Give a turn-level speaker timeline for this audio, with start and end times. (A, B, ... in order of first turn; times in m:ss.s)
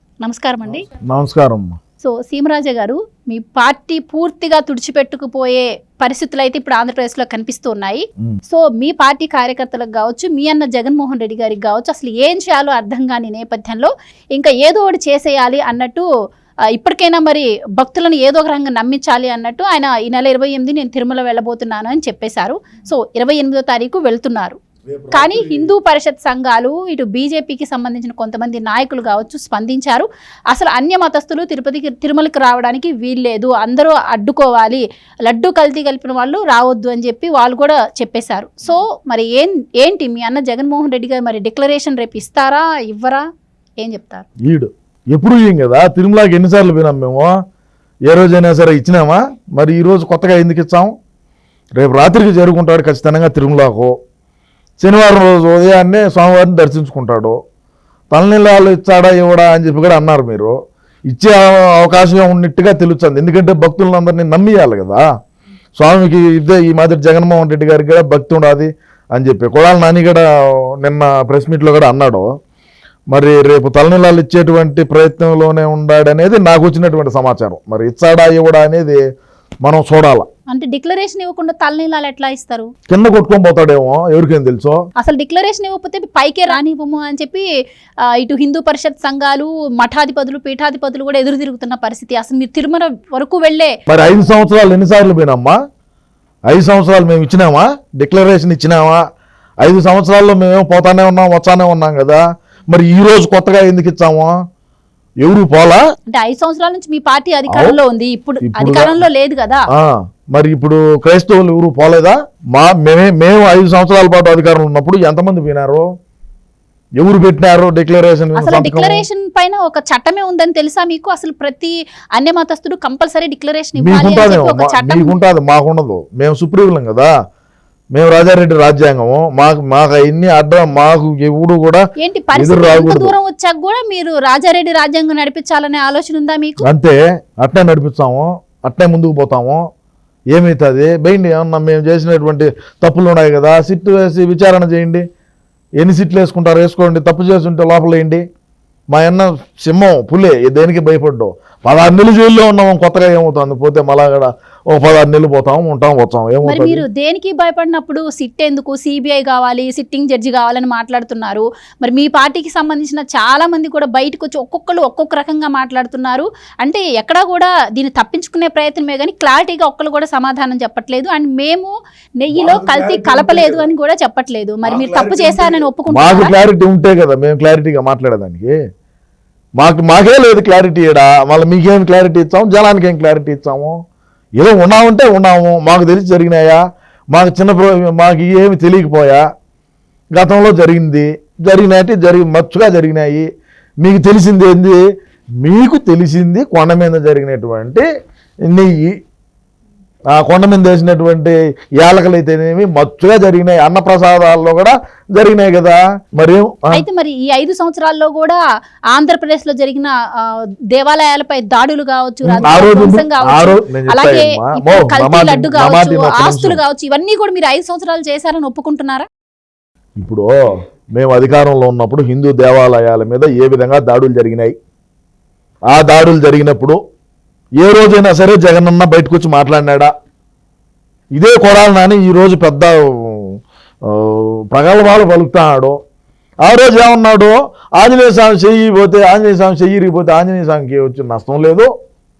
0:00.2-0:00.9 A
0:00.7-0:01.8 B
0:02.0-0:16.1 A
0:16.7-0:24.6 A
0:24.9-0:25.7 B
0:25.1-0:43.2 A
0:43.8-0:44.3 A
0:44.4-0:47.3 B
0:48.1-0:50.9 B
0:51.8-0:54.0 B
0:54.8-0:57.4 B
0:58.1-1:00.6 B
1:01.1-1:05.0 B
1:05.8-1:10.3 B
1:10.8-1:12.3 B
1:13.1-1:19.0 B
1:19.6-1:20.3 B
1:20.5-1:22.7 A
1:22.9-1:24.8 B
1:25.0-1:27.4 A
1:28.1-1:33.8 A
1:33.9-1:35.6 B
1:36.5-1:39.0 B
1:39.6-1:44.4 B
1:45.2-1:45.8 B
1:46.1-1:49.7 A
1:47.5-1:47.8 B
1:48.5-1:49.0 B
1:49.7-1:55.9 B
1:57.0-1:59.0 B
1:58.4-2:05.2 A
2:03.8-2:07.1 B
2:07.9-2:11.8 B
2:12.0-2:16.6 A
2:12.4-2:13.1 B
2:16.6-2:19.6 B
2:20.3-2:25.0 B
2:25.8-2:28.2 B
2:28.9-2:36.9 B
2:36.4-2:56.3 A
2:52.3-2:53.7 B
2:54.6-2:58.6 B
2:59.6-3:03.8 B
3:04.4-3:09.2 B
3:10.1-3:13.3 B
3:13.8-3:14.8 B
3:15.4-3:17.8 B
3:18.5-3:19.0 B
3:20.1-3:26.8 B
3:26.7-3:28.4 A
3:28.9-3:39.1 A
3:32.3-3:36.6 B
3:40.0-3:40.3 B
3:41.0-3:44.6 B
3:45.7-3:46.8 B
3:47.6-3:49.9 B
3:51.1-3:55.8 B
3:56.4-4:01.7 B